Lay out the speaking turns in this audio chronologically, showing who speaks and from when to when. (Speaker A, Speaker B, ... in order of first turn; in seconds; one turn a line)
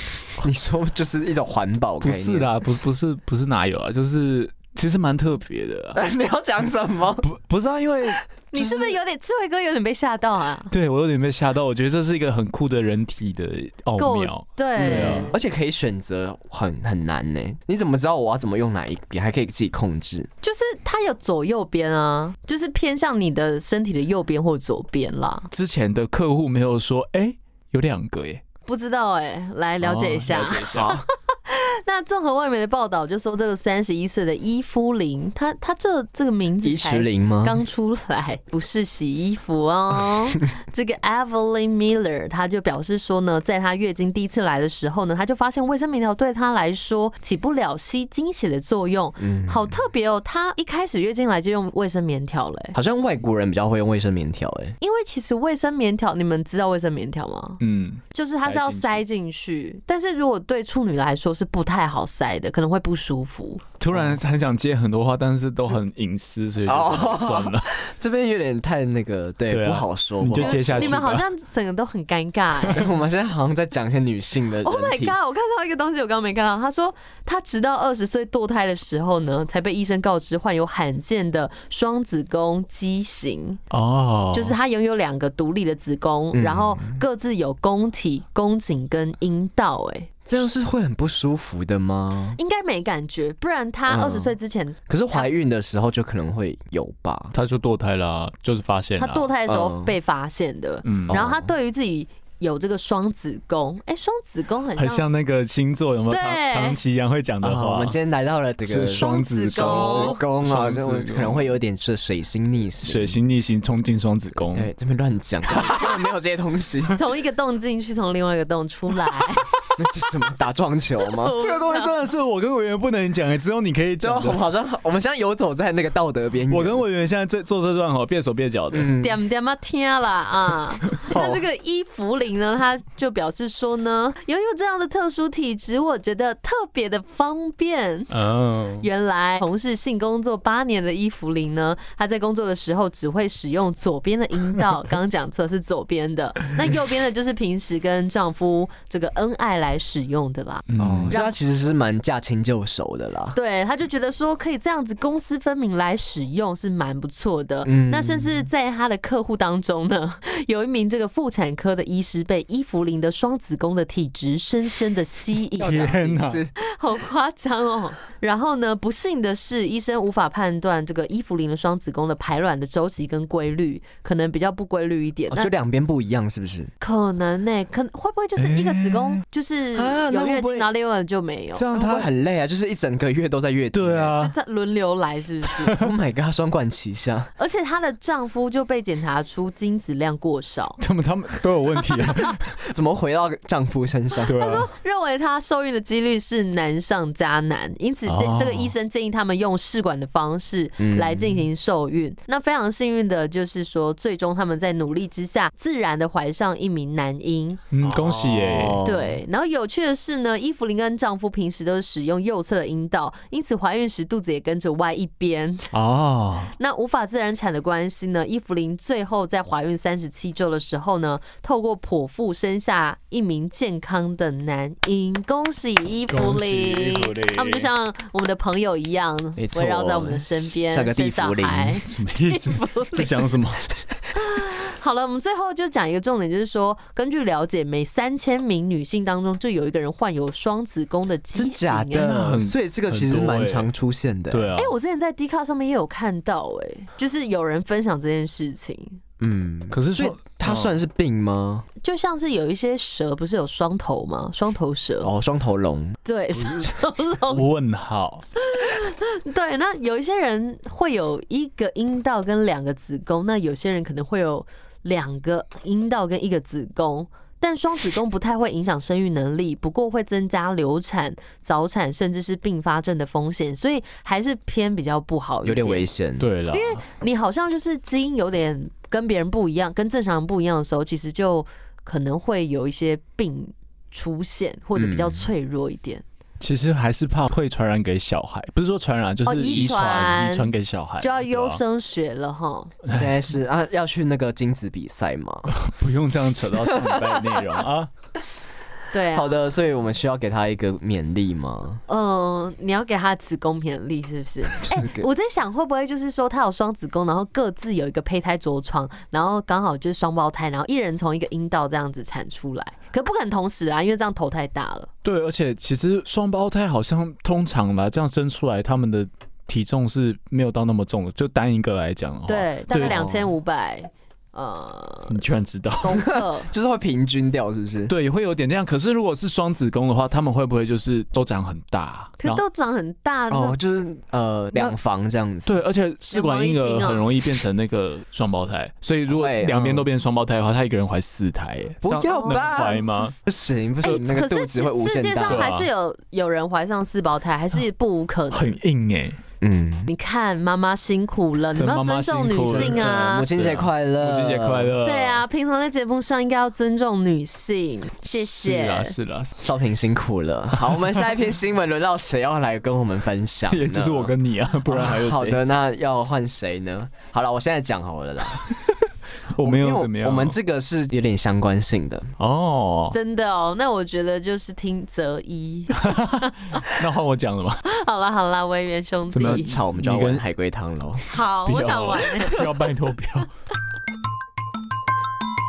Speaker A: 0.4-2.5
Speaker B: 2.0-6.0
Speaker A: 5.9-7.3
Speaker B: 7.2-8.2
Speaker C: 8.5-10.7
Speaker A: 8.5-9.0
Speaker B: 10.7-15.3
Speaker C: 14.0-15.3
Speaker A: 14.8-20.3
Speaker C: 20.4-25.5
Speaker B: 25.5-28.4
Speaker C: 28.7-52.8
Speaker B: 29.8-31.0
Speaker A: 30.7-31.0
Speaker A: 36.6-37.6
Speaker A: 49.2-49.8
Speaker A: 52.7-54.8
Speaker C: 54.8-57.6
Speaker B: 57.6-59.0
Speaker C: 58.1-63.6
Speaker B: 63.8-67.7
Speaker A: 63.9-64.2
Speaker A: 66.7-71.0
Speaker B: 69.5-71.2
Speaker C: 70.4-72.9
Speaker A: 72.7-75.2
Speaker C: 74.6-83.6
Speaker B: 83.7-84.6
Speaker C: 84.3-90.1
Speaker A: 86.3-87.0
Speaker A: 90.3-92.4
Speaker C: 92.4-95.3
Speaker A: 93.9-94.3
Speaker A: 94.9-97.3
Speaker B: 97.3-99.3
Speaker C: 99.0-105.1
Speaker A: 99.5-99.9
Speaker B: 100.8-101.2
Speaker A: 101.1-101.5
Speaker B: 104.8-108.0
Speaker C: 106.1-106.8
Speaker A: 107.4-113.2
Speaker B: 108.7-111.5
Speaker C: 109.0-110.2
Speaker B: 112.8-114.7
Speaker A: 114.5-117.0
Speaker C: 117.0-119.5
Speaker A: 119.8-121.3
Speaker C: 121.2-121.9
Speaker B: 121.3-124.4
Speaker A: 124.0-126.8
Speaker B: 126.5-128.9
Speaker A: 128.7-129.2
Speaker C: 129.0-138.1
Speaker B: 138.1-138.9
Speaker C: 138.8-151.3
Speaker B: 150.7-151.1
Speaker A: 150.8-153.4
Speaker C: 153.3-175.5
Speaker A: 157.6-158.5
Speaker B: 165.6-166.4
Speaker A: 165.6-166.5
Speaker A: 175.3-176.7
Speaker C: 176.8-181.7
Speaker B: 178.4-179.2
Speaker A: 179.8-180.7
Speaker B: 181.6-182.1
Speaker A: 181.7-184.2
Speaker B: 183.7-184.3
Speaker C: 184.2-185.8
Speaker A: 185.7-187.3
Speaker C: 187.4-190.8
Speaker B: 190.8-192.6
Speaker A: 192.6-194.7
Speaker B: 194.3-194.7
Speaker C: 194.3-207.6
Speaker B: 198.1-198.7
Speaker A: 200.8-201.5
Speaker B: 207.7-208.8
Speaker A: 207.8-209.2
Speaker C: 208.8-215.7
Speaker B: 215.7-216.5
Speaker C: 216.6-233.3
Speaker B: 226.1-227.7
Speaker A: 229.4-231.8
Speaker B: 231.8-233.7
Speaker C: 234.1-242.1
Speaker A: 241.3-244.5
Speaker B: 241.9-243.7
Speaker B: 244.3-244.7
Speaker C: 244.6-249.0
Speaker A: 249.2-251.7
Speaker B: 249.7-250.7
Speaker C: 251.8-255.1
Speaker A: 255.0-256.0
Speaker C: 256.1-257.4
Speaker B: 257.3-258.2
Speaker C: 258.4-275.9
Speaker A: 275.4-276.3
Speaker B: 276.2-276.8
Speaker C: 276.5-286.0
Speaker A: 284.8-285.3
Speaker B: 286.4-291.6
Speaker C: 289.2-290.5
Speaker C: 291.0-292.8
Speaker A: 292.9-295.5
Speaker B: 295.5-297.9
Speaker A: 296.7-297.2
Speaker C: 298.9-299.4
Speaker A: 299.1-301.8
Speaker C: 301.9-314.9
Speaker A: 304.6-305.1
Speaker B: 315.0-323.0
Speaker C: 322.3-325.2
Speaker A: 322.7-323.3
Speaker B: 325.1-326.1
Speaker C: 325.8-326.5
Speaker A: 326.0-327.9
Speaker B: 327.9-332.4
Speaker C: 332.2-333.6
Speaker A: 333.3-335.5
Speaker B: 335.5-343.1
Speaker C: 336.1-337.1
Speaker A: 339.1-339.9
Speaker A: 341.8-345.5
Speaker C: 342.0-342.8
Speaker C: 343.8-348.6
Speaker B: 345.3-345.7
Speaker B: 348.3-349.2
Speaker A: 349.4-349.9
Speaker C: 349.9-353.3
Speaker B: 351.6-355.2
Speaker A: 352.5-354.8
Speaker C: 354.8-359.0
Speaker B: 358.1-359.4
Speaker A: 359.4-364.1
Speaker B: 363.5-365.4
Speaker A: 364.7-368.4
Speaker B: 369.3-370.4
Speaker A: 369.4-372.1
Speaker B: 372.2-373.0
Speaker C: 372.9-376.7
Speaker B: 375.7-377.6
Speaker C: 377.6-379.5
Speaker B: 379.1-380.2
Speaker A: 379.2-381.1
Speaker C: 381.1-382.5
Speaker B: 381.4-383.3